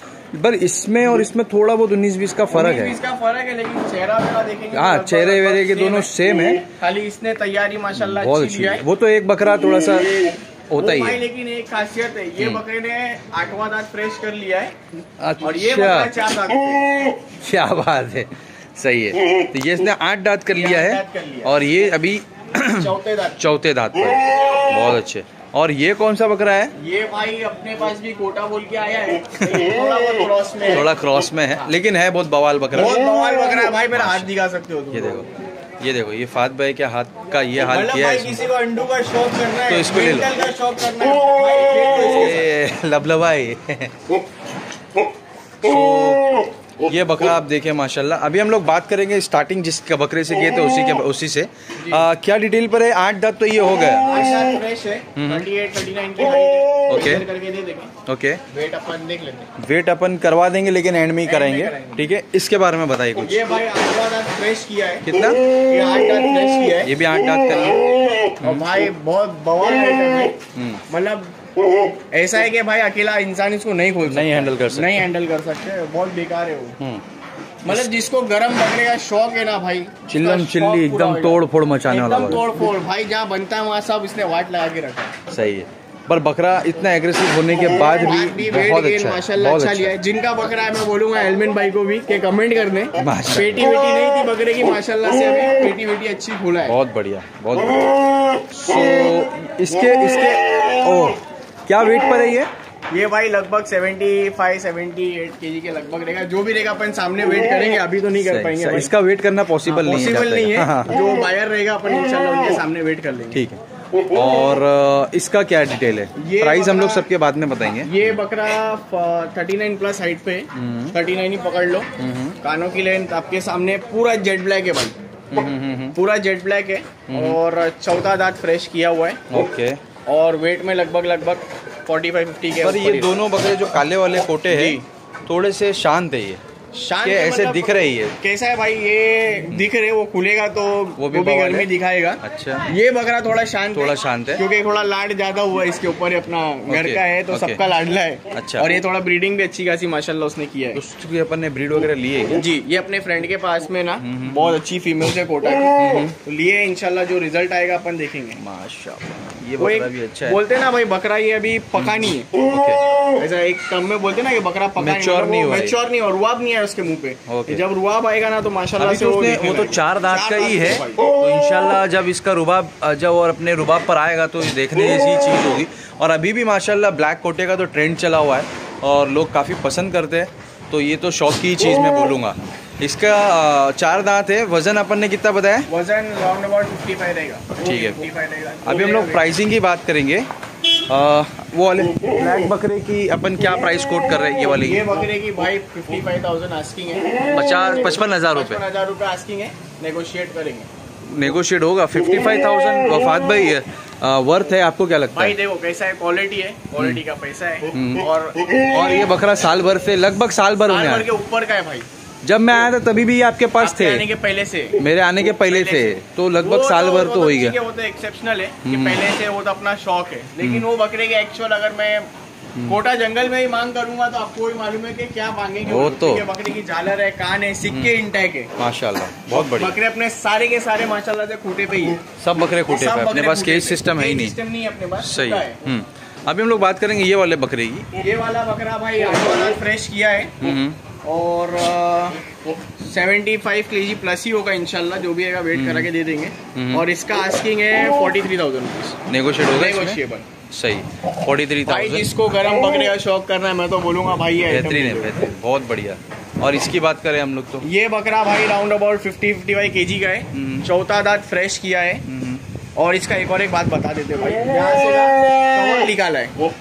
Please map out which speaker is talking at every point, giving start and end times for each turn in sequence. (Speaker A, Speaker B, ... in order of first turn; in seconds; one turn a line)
Speaker A: 0.3-3.0
Speaker B: 2.5-6.1
Speaker A: 4.7-6.7
Speaker B: 6.7-8.8
Speaker A: 8.0-11.2
Speaker B: 10.8-14.7
Speaker A: 15.2-16.1
Speaker B: 15.4-16.9
Speaker A: 17.4-26.7
Speaker B: 20.5-21.5
Speaker B: 22.7-23.4
Speaker B: 26.8-30.9
Speaker A: 30.7-33.0
Speaker B: 32.7-35.2
Speaker A: 33.9-34.3
Speaker A: 34.9-35.3
Speaker A: 35.8-38.4
Speaker B: 37.6-42.5
Speaker A: 39.7-40.3
Speaker A: 42.1-43.9
Speaker A: 45.6-46.2
Speaker A: 46.8-54.1
Speaker B: 54.0-57.9
Speaker A: 55.1-55.4
Speaker A: 56.9-57.2
Speaker A: 58.0-58.4
Speaker B: 58.5-59.5
Speaker A: 59.6-63.3
Speaker B: 61.2-62.0
Speaker B: 63.2-66.9
Speaker A: 65.0-65.4
Speaker A: 66.8-67.8
Speaker B: 68.4-71.3
Speaker A: 70.5-70.8
Speaker B: 72.1-76.8
Speaker A: 74.1-75.0
Speaker B: 77.7-85.1
Speaker A: 80.0-82.4
Speaker A: 85.3-89.9
Speaker B: 87.7-96.8
Speaker A: 93.0-93.7
Speaker A: 96.7-97.9
Speaker A: 98.5-102.5
Speaker B: 102.9-108.9
Speaker A: 108.2-110.9
Speaker B: 109.6-113.4
Speaker A: 113.3-117.9
Speaker B: 116.2-117.1
Speaker B: 117.7-121.9
Speaker A: 120.5-120.9
Speaker A: 122.0-122.3
Speaker B: 122.4-129.2
Speaker A: 125.3-126.0
Speaker A: 127.1-127.4
Speaker A: 129.3-129.8
Speaker B: 130.1-133.2
Speaker A: 132.6-136.4
Speaker B: 134.5-134.8
Speaker B: 136.7-150.8
Speaker A: 137.0-138.1
Speaker A: 141.0-141.7
Speaker A: 142.2-142.7
Speaker A: 143.7-144.4
Speaker A: 146.7-147.6
Speaker A: 148.3-148.7
Speaker A: 150.7-152.4
Speaker B: 152.3-158.4
Speaker A: 154.0-154.6
Speaker A: 155.8-156.1
Speaker A: 158.4-160.4
Speaker B: 159.6-162.3
Speaker A: 162.5-162.8
Speaker B: 163.2-171.0
Speaker A: 164.8-165.7
Speaker A: 167.3-167.6
Speaker A: 168.8-185.7
Speaker B: 185.7-189.3
Speaker A: 187.6-188.1
Speaker A: 188.6-190.3
Speaker A: 190.9-194.8
Speaker B: 194.6-200.7
Speaker A: 197.2-198.6
Speaker A: 201.1-205.3
Speaker B: 205.1-208.4
Speaker A: 207.7-208.0
Speaker A: 208.7-211.1
Speaker B: 210.6-211.9
Speaker A: 212.2-214.0
Speaker B: 213.6-214.8
Speaker A: 214.8-217.6
Speaker B: 215.4-222.1
Speaker A: 218.6-219.0
Speaker A: 220.4-220.7
Speaker B: 222.6-228.5
Speaker A: 225.7-226.3
Speaker A: 228.6-229.8
Speaker B: 229.3-235.6
Speaker A: 232.2-234.3
Speaker A: 235.0-238.0
Speaker B: 237.9-242.2
Speaker A: 240.4-240.8
Speaker B: 242.8-250.2
Speaker A: 245.5-245.9
Speaker A: 246.5-246.8
Speaker A: 249.1-250.0
Speaker A: 250.5-252.1
Speaker B: 251.7-255.3
Speaker A: 254.4-257.6
Speaker B: 257.6-262.0
Speaker A: 260.3-260.6
Speaker A: 262.1-262.4
Speaker B: 262.8-266.4